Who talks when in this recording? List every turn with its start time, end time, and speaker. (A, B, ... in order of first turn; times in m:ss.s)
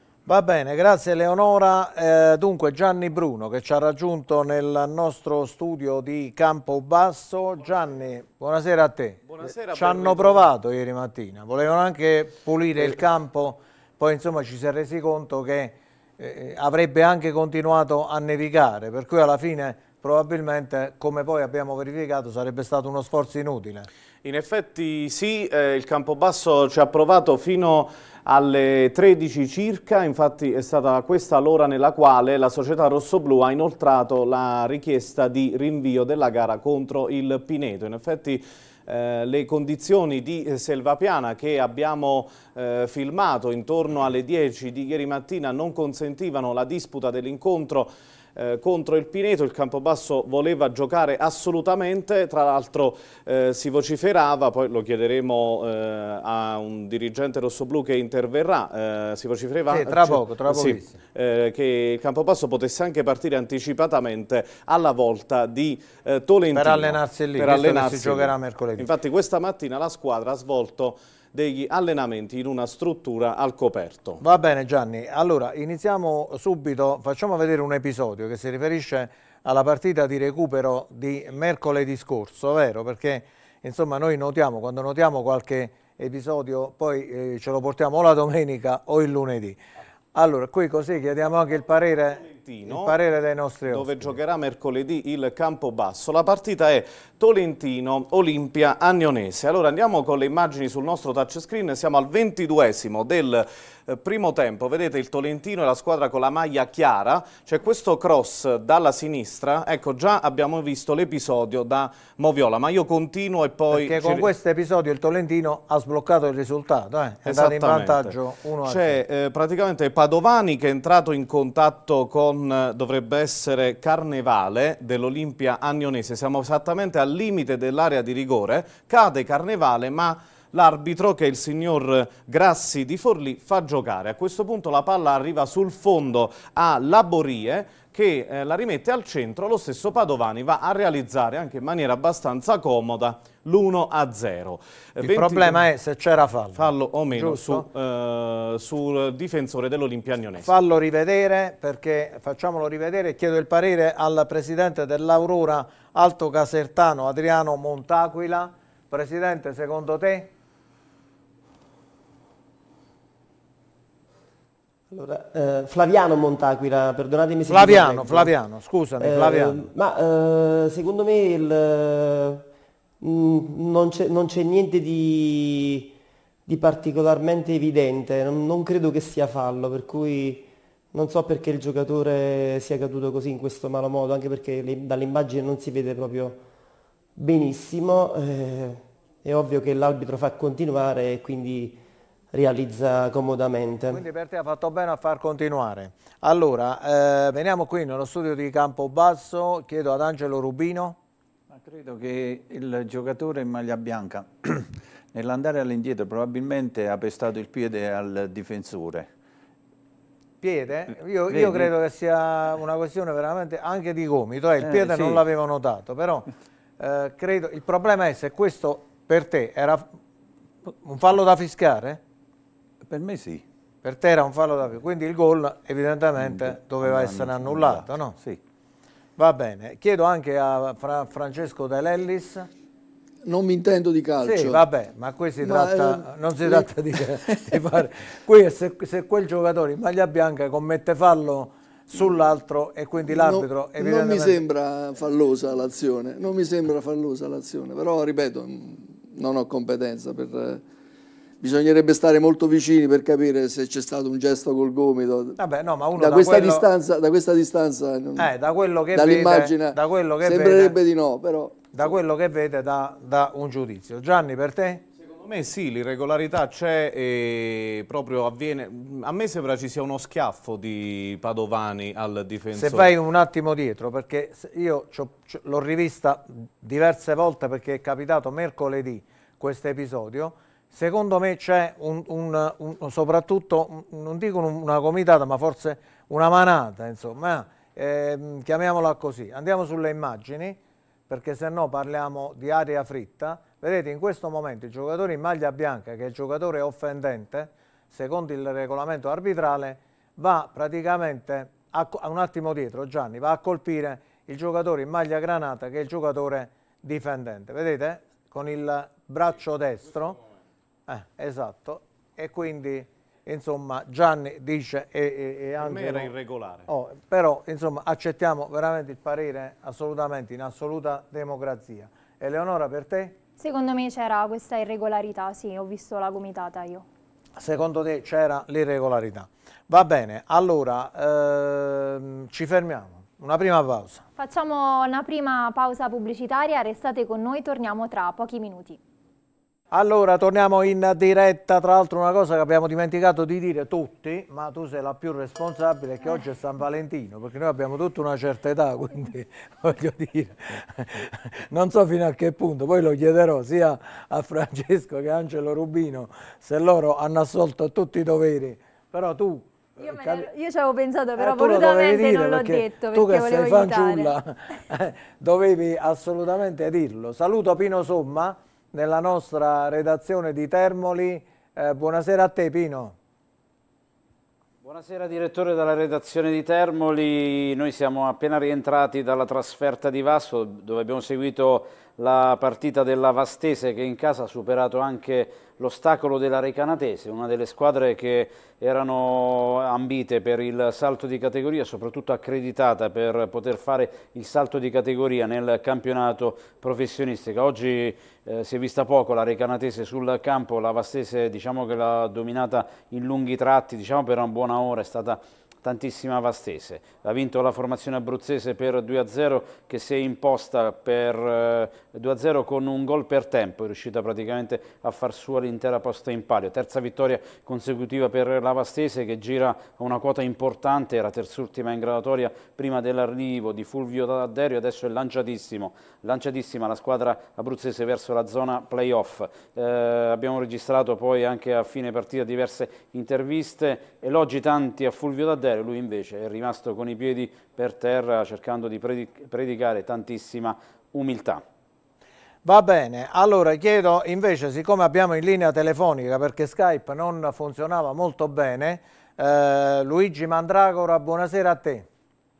0:00.3-0:23.9 A
0:09.3-0:10.5 B
0:24.2-1:14.2 B
0:59.7-1:01.0 A
1:06.5-1:08.9 A
1:14.2-1:29.6 A
1:30.1-1:34.2 A
1:32.3-1:33.0 B
1:33.7-1:54.3 B
1:53.7-1:59.0 A
1:57.2-2:25.7 B
2:25.0-2:27.7 A
2:26.6-2:30.5 B
2:30.4-2:40.3 A
2:44.9-2:48.3 C
2:47.5-2:49.6 A
2:49.0-2:52.4 C
2:53.0-2:55.9 C
2:56.5-3:06.4 C
3:07.2-3:11.8 C
3:12.3-3:14.0 C
3:13.9-3:21.0 A
3:21.5-3:29.1 D
3:30.4-3:36.3 A
3:31.3-3:31.7 D
3:34.6-3:35.2 D
3:36.8-3:40.0 A
3:40.6-3:42.0 A
3:42.8-3:43.4 D
3:43.8-3:48.2 A
3:46.2-3:48.4 D
3:49.2-3:52.5 A
3:53.2-3:54.6 E
3:54.2-4:04.4 A
3:55.4-3:57.5 E
4:03.1-4:10.6 E
4:11.4-4:15.4 E
4:15.4-4:16.7 A
4:16.0-4:18.3 E
4:18.2-4:20.8 A
4:18.9-4:21.8 E
4:21.7-4:24.8 A
4:25.0-4:32.9 B
4:32.5-5:10.2 A
5:10.9-5:16.1 A
5:15.6-5:16.7 B
5:16.7-5:23.2 A
5:23.4-5:26.8 F
5:27.4-5:34.0 A
5:34.2-5:38.8 F
5:39.7-6:00.3 A
5:59.8-6:04.2 F
6:01.2-6:13.0 A
6:14.6-7:21.4 G
7:22.4-7:31.9 A